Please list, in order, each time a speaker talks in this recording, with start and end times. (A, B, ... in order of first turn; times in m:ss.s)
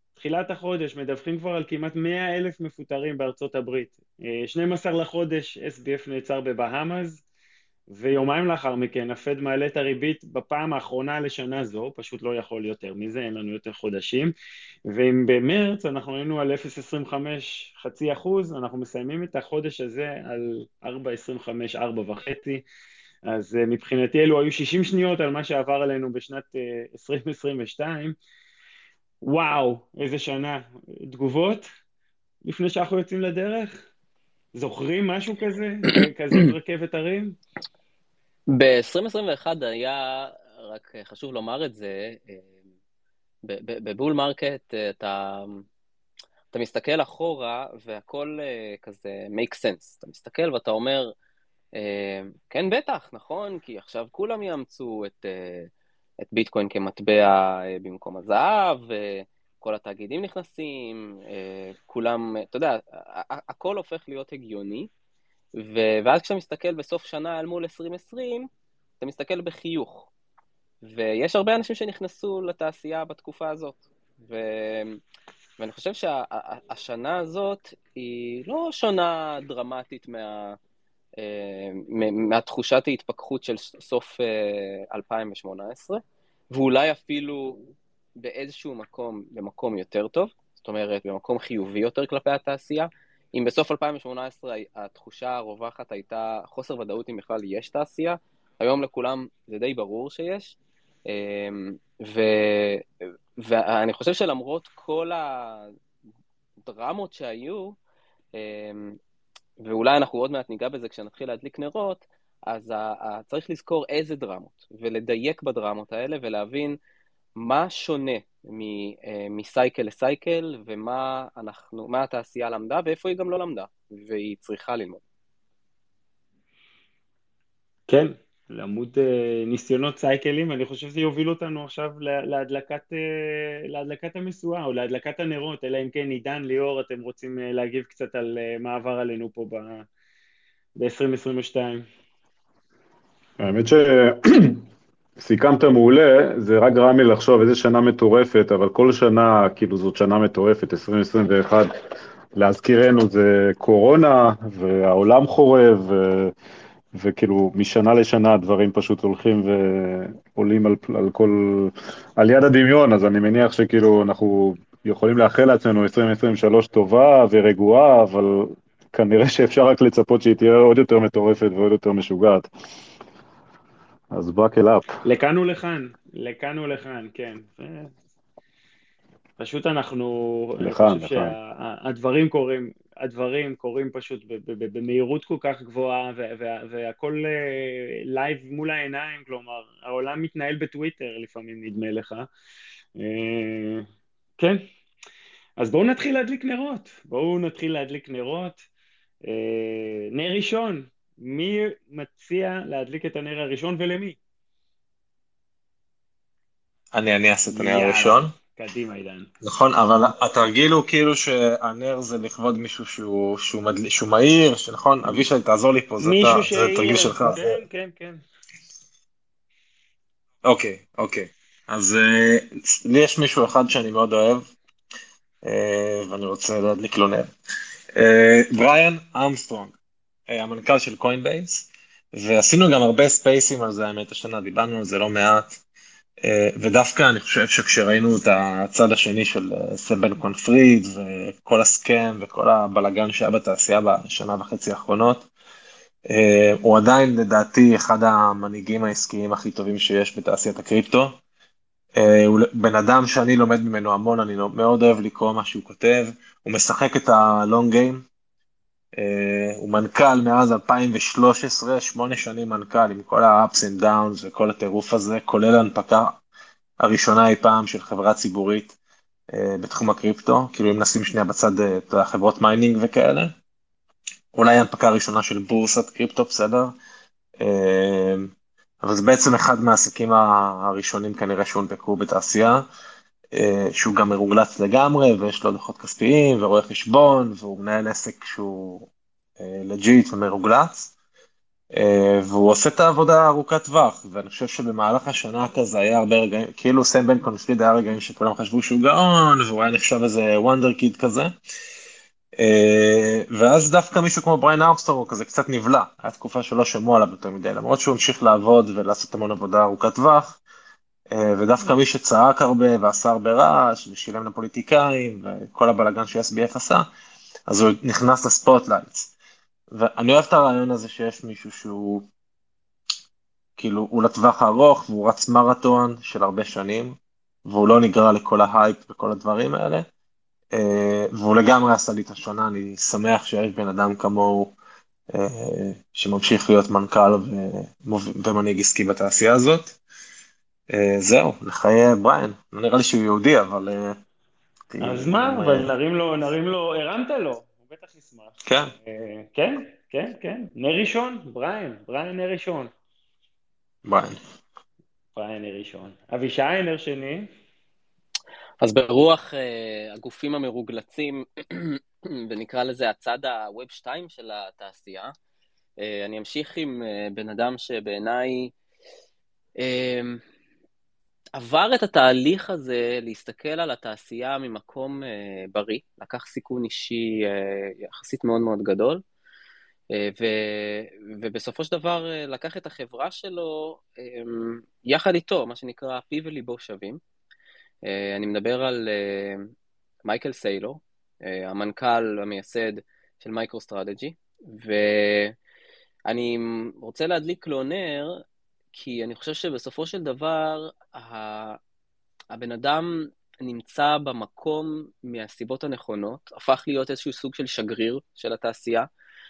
0:00.2-0:07.2 A
0:07.9-0:14.3 A
0:14.9-0:22.6 A
0:23.3-0:28.2 A
0:29.2-0:31.7 A
0:32.4-0:33.8 A
0:34.6-0:37.4 A
0:38.5-0:42.5 B
0:43.4-0:45.6 B
0:46.5-0:51.1 B
0:51.8-0:55.7 B
0:56.2-1:04.9 B
1:05.6-1:08.5 B
1:09.0-1:10.1 B
1:10.8-1:15.0 B
1:15.6-1:20.6 B
1:21.2-1:27.6 B
1:28.2-1:40.6 B
1:41.1-1:42.8 B
1:43.4-1:45.7 B
1:46.6-1:47.8 B
1:48.4-1:49.0 B
1:49.6-1:56.8 B
1:57.4-2:05.0 B
2:07.9-2:19.9 A
2:20.8-2:21.8 A
2:23.4-2:24.6 C
2:25.2-2:31.7 C
2:32.4-2:36.3 C
2:36.9-2:52.5 C
2:54.1-2:55.0 C
2:55.0-2:57.9 A
2:59.4-3:12.3 A
3:00.6-3:01.3 C
3:13.0-3:13.9 A
3:14.4-3:14.6 A
3:15.6-3:18.6 A
3:19.3-3:24.2 A
3:26.9-3:28.3 D
3:27.5-3:29.3 A
3:29.4-3:37.6 D
3:36.0-3:38.2 A
3:40.4-3:44.5 D
3:45.4-3:47.3 D
3:48.0-3:49.7 D
3:50.3-3:55.6 D
3:56.2-4:05.3 D
4:06.1-4:11.2 D
4:12.0-4:18.0 D
4:19.0-4:26.2 D
4:26.8-4:28.7 D
4:29.3-4:33.3 D
4:34.3-4:36.7 D
4:37.4-4:38.3 D
4:38.8-4:42.6 D
4:43.3-4:48.9 D
4:49.4-4:50.9 D
4:51.7-5:01.3 D
5:02.4-5:10.4 D
5:11.1-5:16.9 D
5:17.5-5:19.1 D
5:19.7-5:22.1 D
5:23.6-5:29.9 D
5:30.5-5:34.5 D
5:35.1-5:39.8 D
5:40.7-5:44.0 D
5:44.7-5:45.7 D
5:44.8-5:48.4 A
5:48.5-5:48.7 D
5:48.9-5:52.7 A
5:53.8-5:54.2 D
5:55.2-5:57.2 A
5:58.6-6:05.1 B
6:05.8-6:08.5 B
6:09.6-6:10.2 B
6:11.4-6:19.0 B
6:19.9-6:27.0 B
6:27.9-6:29.5 B
6:30.0-6:35.4 B
6:36.1-6:38.2 B
6:38.7-6:41.6 B
6:42.3-6:48.9 B